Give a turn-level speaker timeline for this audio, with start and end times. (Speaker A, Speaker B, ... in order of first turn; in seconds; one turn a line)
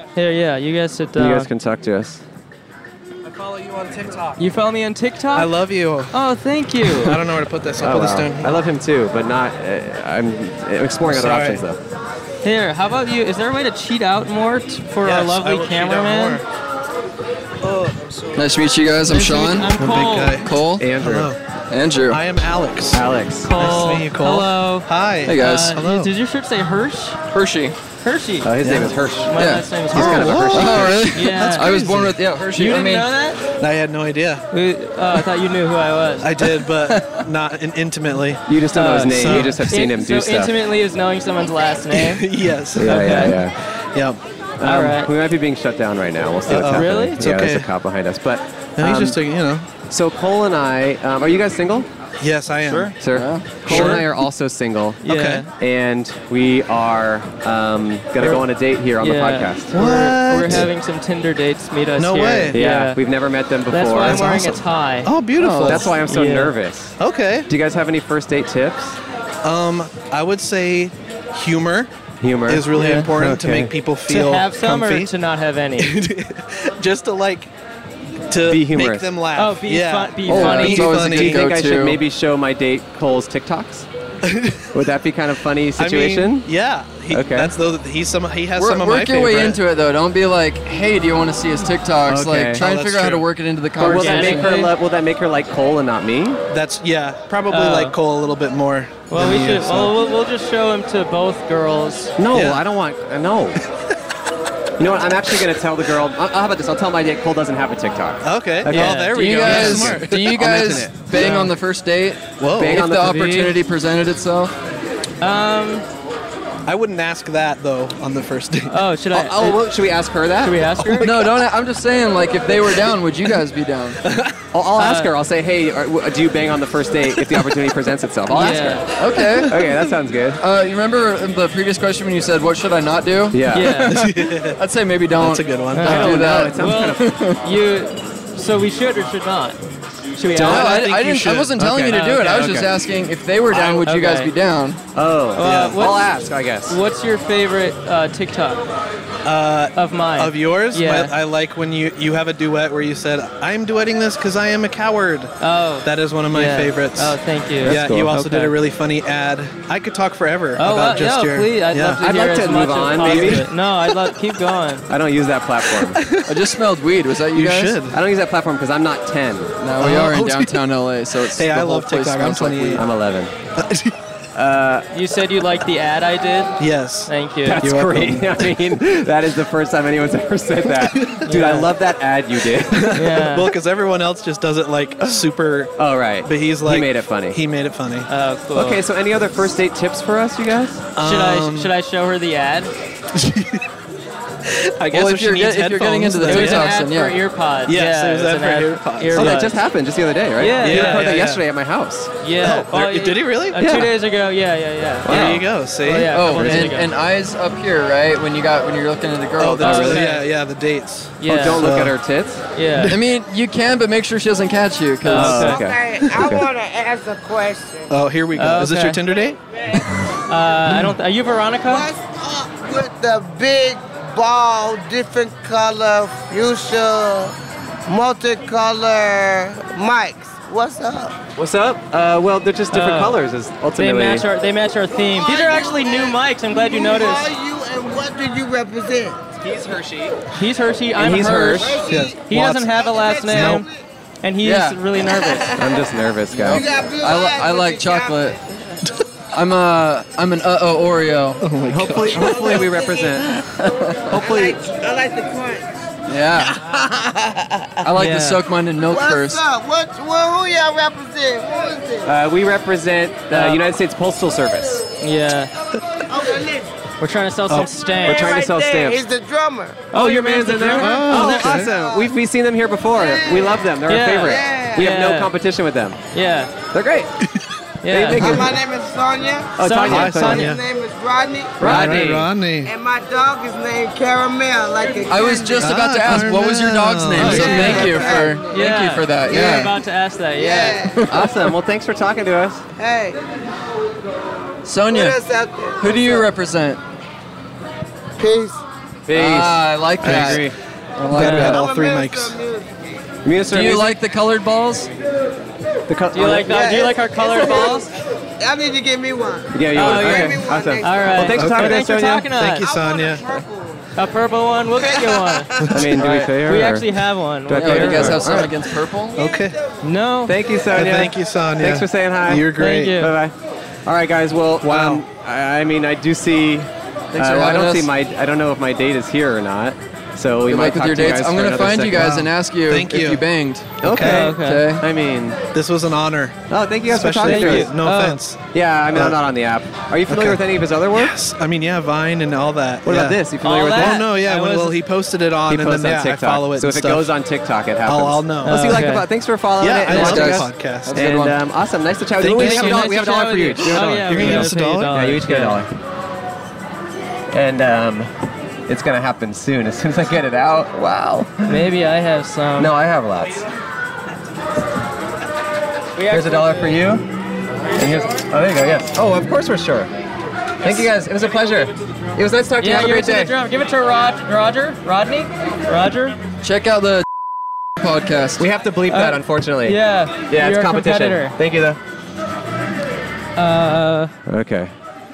Speaker A: 0.1-1.5
Speaker B: 1.2-2.2
Speaker C: 3.2-4.5
Speaker A: 4.4-5.5
Speaker C: 5.3-6.1
Speaker A: 6.1-7.2
Speaker C: 6.8-8.6
Speaker B: 7.8-11.8
Speaker C: 11.0-11.7
Speaker A: 12.4-16.4
Speaker C: 15.0-16.4
Speaker C: 17.6-18.4
Speaker D: 18.4-19.7
Speaker A: 19.1-20.4
Speaker C: 19.8-21.4
Speaker D: 20.4-20.9
Speaker B: 20.8-21.3
Speaker D: 21.7-22.2
Speaker C: 22.1-26.1
Speaker B: 22.9-23.5
Speaker A: 23.5-27.2
Speaker D: 25.3-25.8
Speaker D: 27.3-27.8
Speaker A: 28.0-28.5
Speaker B: 28.4-29.3
Speaker C: 28.6-29.0
Speaker A: 29.3-31.7
Speaker D: 29.4-33.1
Speaker B: 29.9-31.1
Speaker C: 29.9-32.2
Speaker A: 32.5-33.4
Speaker C: 33.5-34.5
Speaker A: 34.5-36.3
Speaker C: 36.2-39.6
Speaker D: 36.9-37.2
Speaker B: 38.5-40.5
Speaker A: 38.7-42.2
Speaker C: 41.9-43.3
Speaker B: 42.8-43.6
Speaker A: 42.8-43.4
Speaker C: 43.8-44.2
Speaker B: 44.6-49.2
Speaker A: 44.6-45.1
Speaker A: 46.5-47.2
Speaker C: 46.5-47.7
Speaker C: 48.8-49.7
Speaker B: 49.8-51.9
Speaker C: 52.2-53.0
Speaker A: 52.6-52.9
Speaker B: 53.0-59.7
Speaker D: 53.1-53.7
Speaker A: 53.6-54.0
Speaker C: 53.7-54.1
Speaker A: 55.0-55.5
Speaker C: 55.0-55.5
Speaker A: 59.0-63.0
Speaker C: 59.7-60.7
Speaker C: 62.0-62.6
Speaker B: 62.5-64.3
Speaker A: 63.7-65.1
Speaker C: 64.0-65.9
Speaker D: 65.4-65.9
Speaker B: 65.7-69.0
Speaker A: 66.0-66.5
Speaker C: 67.0-67.5
Speaker C: 69.4-71.9
Speaker B: 72.2-73.7
Speaker C: 72.5-75.1
Speaker A: 72.7-73.1
Speaker A: 74.1-75.9
Speaker C: 75.8-77.5
Speaker C: 78.3-81.4
Speaker B: 78.5-79.1
Speaker A: 79.4-81.0
Speaker D: 80.3-82.0
Speaker B: 80.7-83.9
Speaker C: 84.2-84.8
Speaker B: 84.7-86.5
Speaker C: 85.8-89.6
Speaker B: 87.1-87.5
Speaker D: 88.6-94.5
Speaker B: 92.1-92.7
Speaker C: 92.6-93.3
Speaker B: 93.8-96.4
Speaker A: 93.8-94.7
Speaker C: 96.5-100.0
Speaker A: 97.5-98.0
Speaker A: 99.1-102.2
Speaker B: 102.2-103.6
Speaker C: 102.3-102.6
Speaker B: 104.8-111.1
Speaker C: 108.2-110.3
Speaker A: 108.7-109.1
Speaker D: 109.1-114.5
Speaker C: 111.1-111.5
Speaker C: 112.4-112.8
Speaker B: 112.6-113.5
Speaker A: 113.0-113.5
Speaker A: 115.2-115.8
Speaker C: 116.7-118.8
Speaker A: 118.7-119.6
Speaker B: 119.1-121.3
Speaker A: 120.4-121.2
Speaker D: 121.0-124.0
Speaker C: 124.0-124.4
Speaker B: 124.5-130.4
Speaker A: 124.8-125.1
Speaker A: 128.3-128.9
Speaker D: 129.0-129.6
Speaker C: 129.2-129.8
Speaker D: 130.4-137.4
Speaker B: 133.3-133.9
Speaker A: 133.5-133.9
Speaker C: 133.9-134.6
Speaker C: 135.2-136.3
Speaker A: 135.7-139.6
Speaker B: 135.8-137.1
Speaker A: 140.2-140.8
Speaker C: 140.3-141.5
Speaker D: 140.4-144.8
Speaker B: 141.6-142.7
Speaker A: 141.9-142.5
Speaker C: 143.5-143.8
Speaker A: 143.8-144.3
Speaker B: 144.9-146.8
Speaker A: 145.4-146.1
Speaker C: 145.4-145.8
Speaker A: 146.7-148.6
Speaker C: 149.2-162.0
Speaker A: 149.8-151.1
Speaker A: 155.4-158.6
Speaker B: 157.6-158.1
Speaker A: 160.6-164.9
Speaker B: 162.0-163.5
Speaker C: 163.0-164.1
Speaker B: 164.9-166.0
Speaker C: 165.8-166.3
Speaker D: 166.3-167.8
Speaker C: 167.3-168.0
Speaker B: 167.9-169.6
Speaker D: 169.6-172.8
Speaker C: 169.8-170.6
Speaker C: 171.3-172.9
Speaker B: 172.8-173.3
Speaker C: 173.6-174.0
Speaker B: 174.3-174.9
Speaker A: 174.9-177.6
Speaker C: 176.6-178.3
Speaker B: 177.4-183.0
Speaker C: 180.9-181.5
Speaker A: 181.3-181.6
Speaker C: 182.7-188.1
Speaker A: 182.9-183.5
Speaker B: 185.8-187.4
Speaker A: 188.1-188.8
Speaker B: 188.5-190.8
Speaker C: 190.9-191.7
Speaker A: 191.0-192.7
Speaker C: 193.1-193.7
Speaker C: 194.5-196.8
Speaker D: 194.9-197.2
Speaker A: 196.3-199.6
Speaker C: 197.7-199.4
Speaker B: 199.1-202.1
Speaker A: 200.4-201.2
Speaker C: 200.6-201.4
Speaker A: 202.2-206.9
Speaker C: 202.4-203.6
Speaker B: 203.6-203.9
Speaker B: 205.1-205.5
Speaker C: 205.1-206.4
Speaker D: 206.1-210.0
Speaker B: 206.3-206.7
Speaker C: 209.4-212.0
Speaker A: 209.6-210.2
Speaker A: 211.2-211.7
Speaker B: 211.3-212.4
Speaker A: 212.5-212.9
Speaker C: 212.6-213.0
Speaker D: 212.9-215.4
Speaker A: 215.1-215.6
Speaker B: 215.1-216.4
Speaker E: 215.3-217.9
Speaker C: 217.9-219.4
Speaker A: 218.4-219.0
Speaker A: 220.3-221.9
Speaker E: 221.7-231.2
Speaker B: 231.4-234.2
Speaker A: 232.7-233.2
Speaker A: 233.8-237.3
Speaker E: 235.2-239.2
Speaker B: 239.4-240.2
Speaker A: 240.3-243.7
Speaker B: 241.0-241.8
Speaker E: 241.6-243.8
Speaker C: 241.9-242.6
Speaker C: 243.3-243.7
Speaker A: 244.2-245.5
Speaker D: 244.4-244.8
Speaker E: 245.1-245.8
Speaker B: 245.6-246.6
Speaker D: 246.3-248.4
Speaker E: 246.4-248.3
Speaker D: 249.3-251.4
Speaker C: 251.4-252.4
Speaker B: 251.7-253.4
Speaker E: 252.2-253.2
Speaker D: 253.6-254.2
Speaker B: 254.1-254.6
Speaker E: 254.2-257.9
Speaker D: 256.1-256.6
Speaker D: 257.8-259.4
Speaker A: 257.9-258.4
Speaker E: 258.8-262.1
Speaker B: 262.1-264.9
Speaker A: 263.3-263.6
Speaker A: 265.0-265.5
Speaker E: 266.1-266.7
Speaker A: 267.0-268.3
Speaker E: 268.0-269.9
Speaker B: 268.1-269.1
Speaker A: 269.9-271.6
Speaker B: 269.9-276.0
Speaker C: 270.8-271.7
Speaker E: 271.7-272.1
Speaker E: 272.9-273.6
Speaker A: 273.9-275.3
Speaker E: 274.2-274.9
Speaker A: 276.1-276.5
Speaker B: 276.7-277.1
Speaker A: 277.8-278.4
Speaker B: 277.9-278.6
Speaker E: 278.2-279.5
Speaker B: 279.6-280.5
Speaker A: 279.6-280.6
Speaker C: 279.9-280.6
Speaker E: 280.3-281.9
Speaker B: 281.6-282.3
Speaker C: 281.6-282.7
Speaker E: 282.6-285.9
Speaker D: 285.1-289.8
Speaker C: 285.6-288.1
Speaker E: 287.2-288.6
Speaker A: 287.2-290.8
Speaker E: 289.3-289.6
Speaker E: 290.4-291.3
Speaker D: 291.0-291.3
Speaker B: 291.1-292.6
Speaker E: 292.8-293.2
Speaker D: 294.6-295.2
Speaker E: 294.9-296.3
Speaker D: 295.8-296.8
Speaker E: 298.2-298.6
Speaker B: 299.1-300.6
Speaker D: 299.1-301.6
Speaker C: 301.1-302.4
Speaker A: 301.1-301.6
Speaker E: 301.3-302.9
Speaker B: 303.2-304.0
Speaker D: 303.5-304.9
Speaker B: 305.9-306.7
Speaker A: 306.1-307.9
Speaker E: 306.4-311.2
Speaker B: 309.5-312.3
Speaker A: 309.7-312.6
Speaker C: 311.4-313.3
Speaker E: 312.6-313.9
Speaker A: 314.0-318.2
Speaker E: 314.8-315.7
Speaker B: 315.7-316.9
Speaker B: 317.5-318.5
Speaker D: 317.5-319.2
Speaker C: 319.2-319.6
Speaker A: 319.8-320.4
Speaker B: 320.3-323.3
Speaker C: 320.7-323.0
Speaker A: 322.6-323.1
Speaker B: 323.9-332.1
Speaker C: 324.6-325.0
Speaker D: 327.1-327.9
Speaker D: 330.4-334.9
Speaker C: 331.9-333.2
Speaker B: 333.8-335.4
Speaker C: 333.8-334.3
Speaker A: 334.0-334.7
Speaker C: 335.5-339.2
Speaker B: 336.5-337.7
Speaker A: 337.2-338.2
Speaker B: 338.5-341.2
Speaker C: 340.1-340.4
Speaker C: 340.9-347.1
Speaker B: 342.8-344.1
Speaker A: 343.4-344.8
Speaker B: 345.5-355.7
Speaker C: 347.9-348.9
Speaker A: 348.4-349.1
Speaker C: 349.6-351.0
Speaker D: 349.9-351.4
Speaker C: 352.2-354.9
Speaker A: 352.3-355.6
Speaker B: 357.3-358.1
Speaker B: 358.7-361.6
Speaker A: 361.5-362.7
Speaker B: 362.6-363.5
Speaker A: 366.0-366.7
Speaker B: 366.1-367.0
Speaker B: 367.8-369.9
Speaker B: 370.6-373.3
Speaker A: 372.6-376.2
Speaker D: 376.4-377.1
Speaker D: 377.8-378.5
Speaker B: 378.4-381.8
Speaker A: 378.9-381.4
Speaker A: 383.4-384.1
Speaker B: 384.3-384.7